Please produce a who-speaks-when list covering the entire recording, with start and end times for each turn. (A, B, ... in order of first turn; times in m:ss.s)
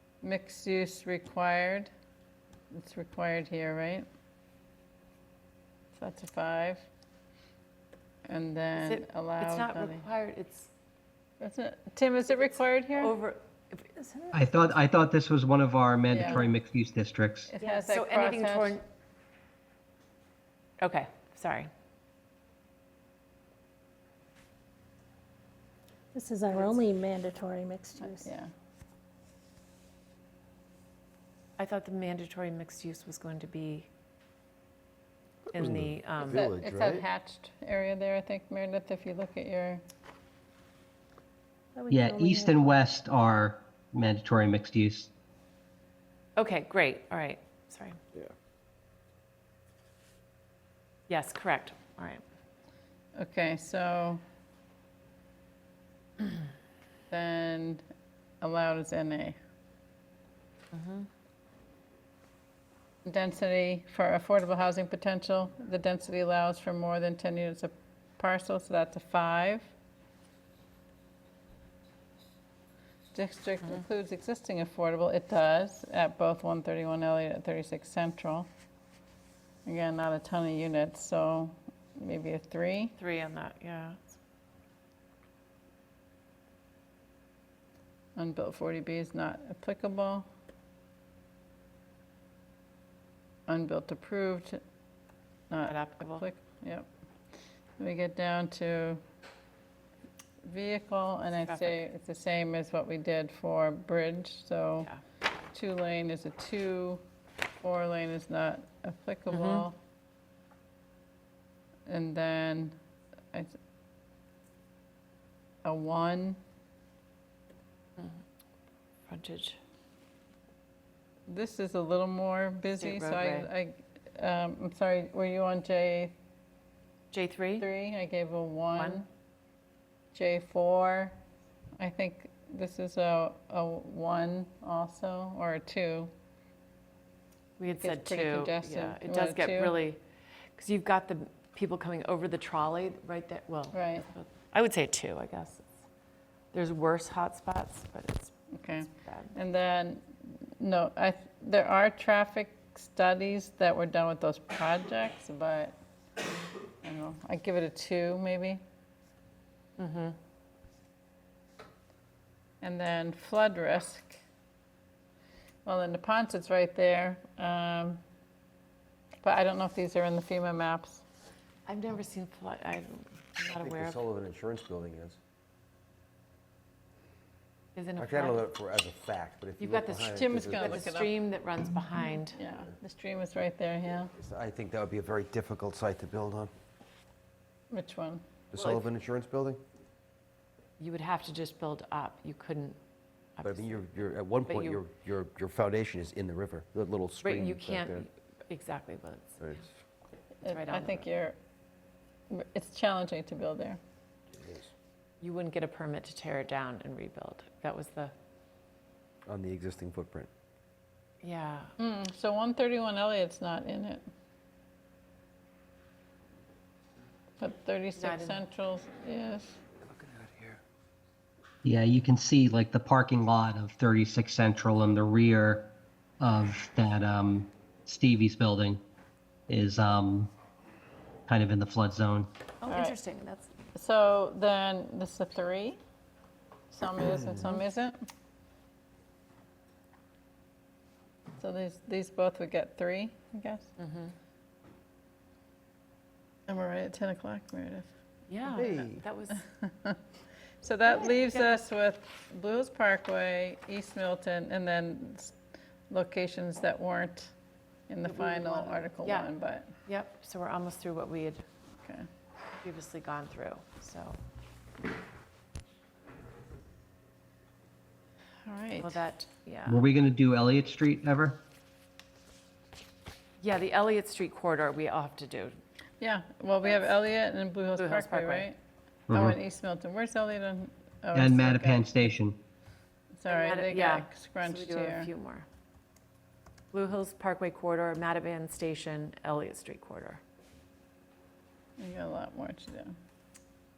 0:00.2-0:01.9 A
0:02.7-0:04.1 A
0:06.0-0:06.9 A
0:08.3-0:10.0 A
0:08.8-0:10.7 B
0:11.4-0:13.1 A
0:12.3-0:14.2 B
0:14.3-0:17.5 C
0:16.1-0:16.5 A
0:17.5-0:18.8 A
0:17.6-0:18.8 B
0:20.8-0:21.7 B
0:26.2-0:28.2 D
0:26.5-0:26.8 B
0:28.0-0:28.5 A
0:31.6-0:33.9 B
0:35.5-0:36.4 B
0:35.5-0:37.0 E
0:36.3-0:39.8 A
0:41.8-0:42.4 D
0:41.9-0:45.1 C
0:46.4-0:48.0 B
0:51.1-0:52.2 B
0:53.2-0:54.2 A
0:57.1-0:57.8 A
0:58.4-0:59.4 A
1:00.7-1:01.1 B
1:03.0-1:09.7 A
1:13.1-1:18.5 A
1:19.6-1:23.0 A
1:23.0-1:24.0 B
1:28.2-1:30.3 A
1:33.5-1:34.6 A
1:35.5-1:36.9 A
1:35.7-1:36.2 B
1:37.8-1:39.0 A
1:40.4-1:44.9 A
1:41.5-1:41.8 B
1:45.5-1:47.0 A
1:47.6-1:49.8 A
1:49.3-1:49.6 B
1:51.9-1:52.8 A
1:55.6-1:56.4 A
1:59.1-1:59.6 B
2:01.3-2:06.1 A
2:02.8-2:03.5 B
2:07.1-2:07.6 B
2:07.6-2:09.1 A
2:08.8-2:09.0 B
2:10.1-2:11.2 A
2:11.8-2:16.1 A
2:17.6-2:20.0 B
2:17.7-2:19.8 A
2:20.6-2:25.7 B
2:23.7-2:24.1 A
2:26.5-2:29.4 B
2:28.5-2:35.8 A
2:36.8-2:38.6 A
2:39.8-2:40.2 B
2:42.6-2:44.2 A
2:45.6-2:48.0 A
2:49.2-2:51.0 A
2:51.7-2:54.0 B
2:53.6-2:55.2 E
2:57.8-2:58.5 B
2:58.0-3:00.9 E
2:59.6-3:02.4 B
3:00.1-3:01.2 A
3:02.0-3:04.1 A
3:04.2-3:06.5 E
3:07.7-3:08.2 A
3:08.5-3:09.6 E
3:08.6-3:08.9 B
3:10.8-3:12.8 B
3:13.4-3:13.9 B
3:13.4-3:18.1 E
3:14.4-3:14.8 B
3:17.2-3:19.5 B
3:19.4-3:19.7 E
3:20.4-3:21.4 A
3:20.5-3:21.1 B
3:22.3-3:23.8 A
3:24.4-3:24.7 E
3:25.2-3:28.1 B
3:29.3-3:30.3 E
3:31.2-3:31.7 B
3:31.8-3:34.0 A
3:37.4-3:39.6 A
3:38.0-3:38.4 B
3:41.6-3:48.8 C
3:49.5-3:50.3 C
3:51.3-3:52.3 C
3:52.6-3:53.5 B
3:52.7-3:53.0 A
3:53.8-3:55.8 A
3:56.7-3:58.0 A
4:01.4-4:03.7 A
4:03.8-4:04.1 B
4:06.5-4:07.9 A
4:08.3-4:09.4 B
4:09.6-4:10.0 A
4:10.6-4:15.4 A
4:11.0-4:11.6 B
4:15.9-4:17.3 A
4:17.9-4:19.7 A
4:18.0-4:19.3 B
4:19.9-4:21.4 B
4:22.6-4:24.2 B
4:28.4-4:29.0 A
4:28.8-4:29.9 B
4:29.7-4:31.4 C
4:33.4-4:35.6 B
4:36.0-4:38.6 A
4:37.8-4:38.5 B
4:39.1-4:39.4 C
4:39.1-4:42.0 A
4:41.1-4:42.4 C
4:43.1-4:45.1 A
4:43.3-4:45.5 B
4:46.7-4:50.2 B
4:51.8-4:52.9 A